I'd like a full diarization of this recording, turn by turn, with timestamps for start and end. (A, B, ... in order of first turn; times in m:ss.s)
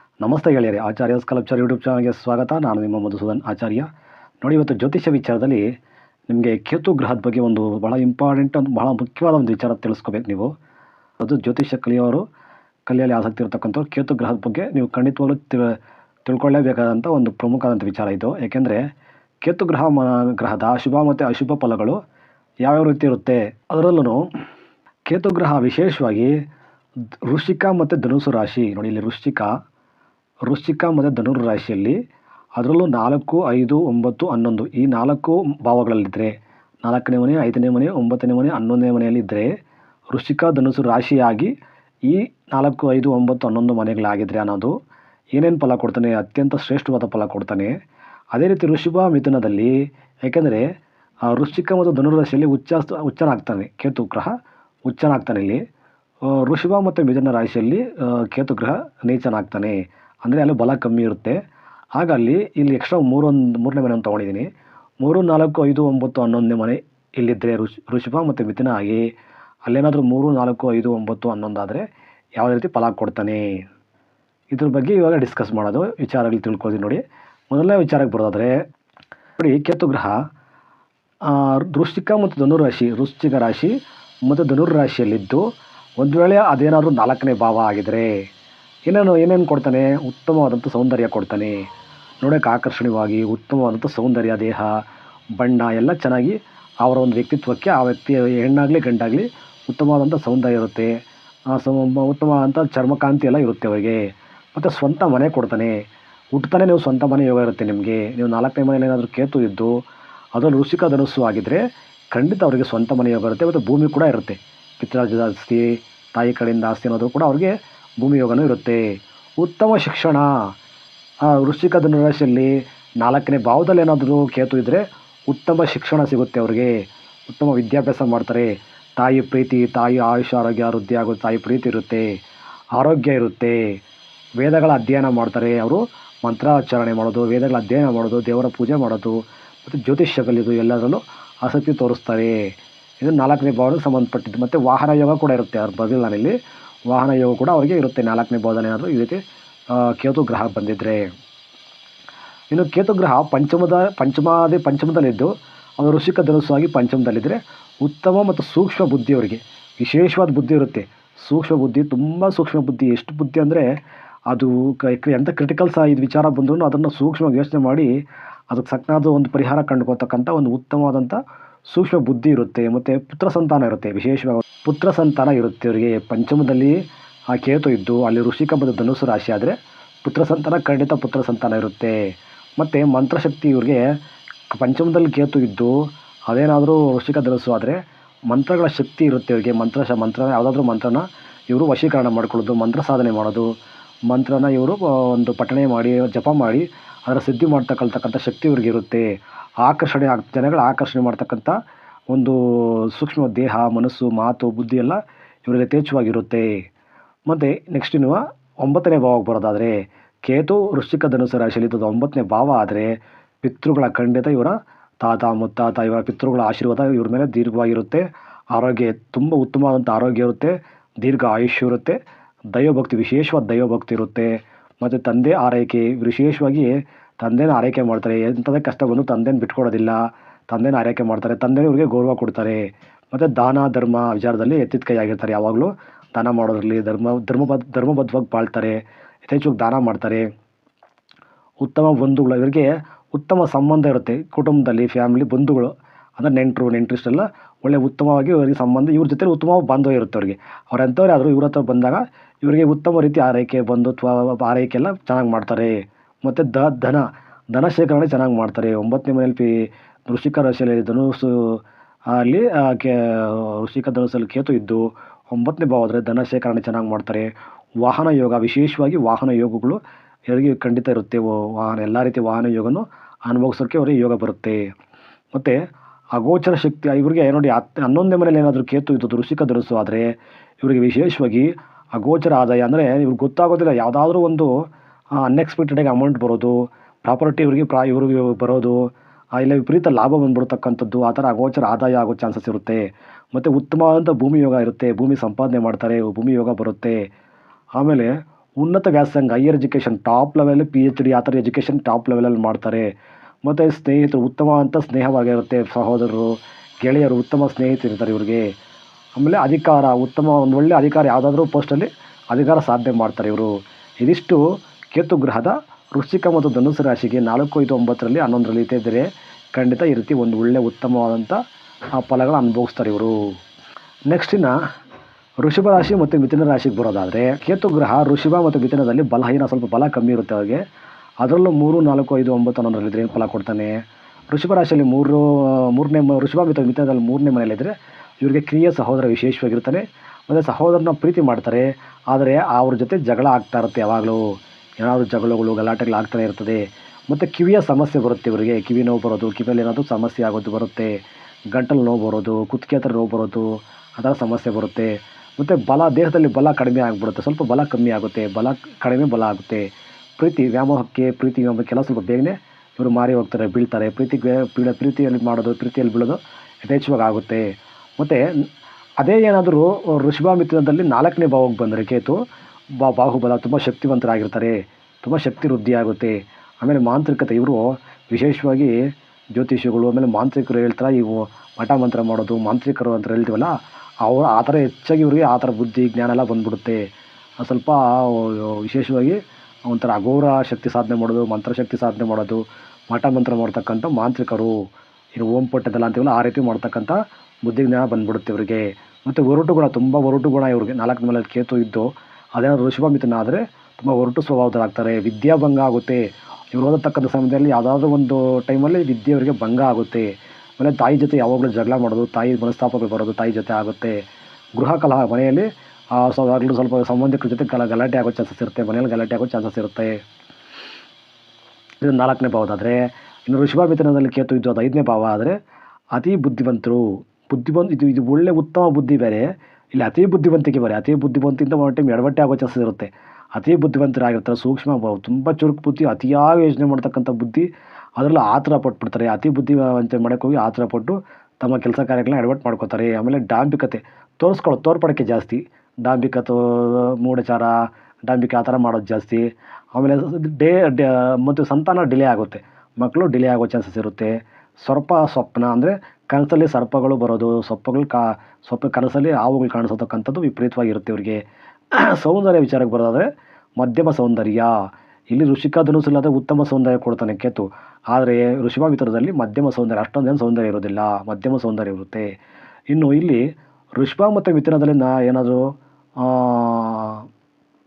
0:00.2-0:03.9 A
0:04.4-0:05.7 A
0:06.3-0:10.5 A
0:11.2-0:12.2 A
0:12.9-0:18.9 A
0:19.4-0:22.0 A
0:22.6-0:24.2 A
0:25.1-0:26.4 A
0:27.2-0:29.5 A
0:30.5-0:32.0 A
0:32.6-0:39.5 A
0:40.1-0:41.5 A
0:42.0-0:44.7 A
0:45.4-0:47.7 A
0:48.3-0:49.7 A
0:50.2-0:50.6 A
0:51.3-0:54.3 A
0:54.9-0:55.6 A
0:56.3-1:01.4 A
1:02.0-1:04.5 A
1:05.0-1:09.1 A
1:09.6-1:13.6 A
1:14.5-1:18.5 A
1:19.4-1:20.2 A
1:21.2-1:23.7 A
1:24.2-1:25.4 A
1:26.0-1:28.1 A
1:28.9-1:31.5 A
1:32.2-1:34.8 A
1:35.4-1:41.0 A
1:41.5-1:49.8 A
1:50.3-2:00.3 A
2:01.3-2:12.2 A
2:12.8-2:13.8 A
2:14.4-2:26.4 A
2:26.9-2:29.2 A
2:29.7-2:31.1 A
2:32.5-2:43.7 A
2:44.3-2:47.9 A
2:48.5-2:51.2 A
2:51.7-2:56.8 A
2:57.3-3:02.0 A
3:02.6-3:03.9 A
3:04.5-3:13.5 A
3:14.1-3:19.1 A
3:19.6-3:21.5 A
3:22.1-3:26.5 A
3:27.3-3:42.0 A
3:42.5-4:00.3 A
4:01.6-4:27.3 A
4:27.8-4:34.6 A
4:35.3-4:35.6 A
4:36.2-4:40.1 A
4:40.6-4:44.5 A
4:45.2-4:57.1 A
4:57.8-5:02.9 A
5:03.4-5:08.4 A
5:09.2-5:14.4 A
5:14.9-5:21.4 A
5:22.0-5:23.2 A
5:24.1-5:24.5 A
5:25.4-5:30.6 A
5:31.2-5:33.8 A
5:34.3-5:51.0 A
5:51.5-6:08.2 A
6:09.0-6:12.2 A
6:12.8-6:18.8 A
6:19.3-6:23.5 A
6:24.0-6:26.8 A
6:27.4-6:34.5 A
6:35.2-6:54.0 A
6:54.6-7:00.0 A
7:01.8-7:05.4 A
7:05.9-7:41.2 A
7:41.7-7:43.1 A
7:43.6-7:44.5 A
7:45.1-7:52.1 A
7:52.7-7:53.2 A
7:53.8-7:57.0 A